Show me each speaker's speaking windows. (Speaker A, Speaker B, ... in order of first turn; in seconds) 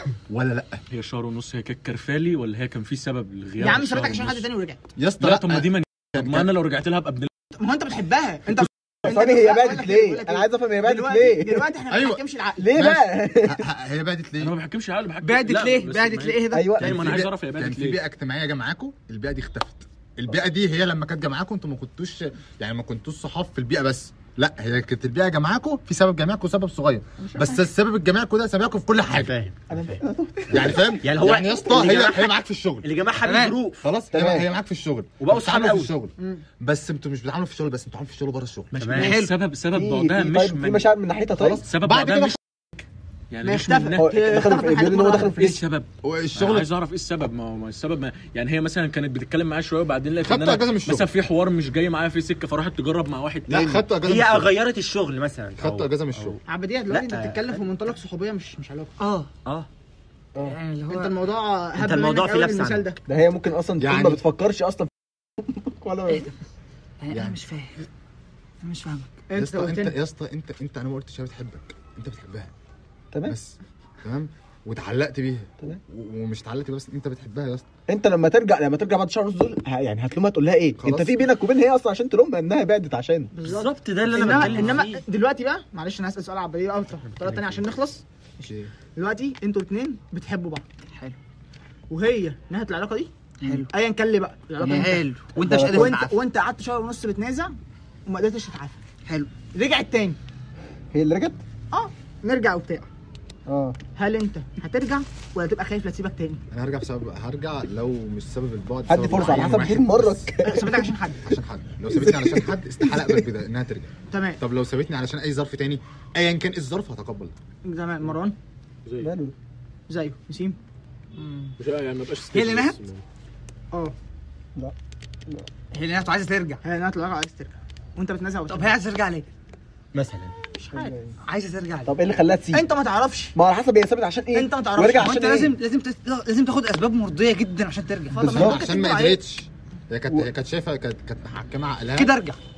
Speaker A: 0.3-0.8, 5.0-6.5, 11.9-12.2, 12.8-14.6, 16.8-29.3, 30.5-32.9, 33.8-38.7, 41.4-42.4, 46.0-46.7, 50.2-51.1, 53.5-54.6, 55.6-56.4, 63.8-64.2, 67.1-67.4, 69.3-72.5, 73.3-77.7, 80.8-81.3, 88.4-88.7, 106.5-110.3, 111.2-117.3, 138.3-142.2
Speaker B: 0.9-4.5, 5.2-7.3, 14.4-18.0, 38.7-40.9, 41.7-42.4, 43.3-53.9, 121.6-123.0
Speaker C: 3.6-4.8, 7.5-12.7, 27.2-27.6, 36.2-36.4, 43.4-45.6, 56.5-59.0, 60.9-63.0, 69.3-70.0, 83.3-88.0, 88.9-90.7, 91.9-95.0, 95.7-97.5, 98.1-98.8, 99.5-100.2, 101.7-102.9, 104.0-106.4, 110.4-111.2, 114.1-114.4, 117.7-118.3, 119.9-120.6, 126.6-128.8, 130.6-130.9, 132.5-133.3, 134.3-135.2, 138.1-139.2
Speaker D: 9.0-11.7, 12.6-13.7, 16.5-17.1, 29.8-30.8, 34.1-34.5, 39.7-41.7, 43.9-45.6, 63.1-66.3, 77.9-83.3, 95.4-96.0, 100.9-101.4, 103.5-103.8, 108.9-110.9, 111.9-113.2, 119.0-119.3, 130.7-131.2, 131.9-132.7, 133.3-135.6, 138.2-138.6
Speaker E: 15.2-16.8, 33.2-33.6, 38.9-39.3, 59.0-59.3, 60.4-61.2, 67.0-67.9, 68.6-69.2, 93.4-93.7, 94.6-96.2, 99.1-99.3, 121.2-121.6, 122.3-122.8, 125.7-126.6, 128.5-129.3, 131.2-131.9, 135.0-138.3, 142.0-142.4
Speaker F: 29.1-33.8, 35.2-35.9, 38.8-39.2, 54.0-57.6, 61.8-62.9, 83.4-85.0, 87.0-87.7, 129.9-130.3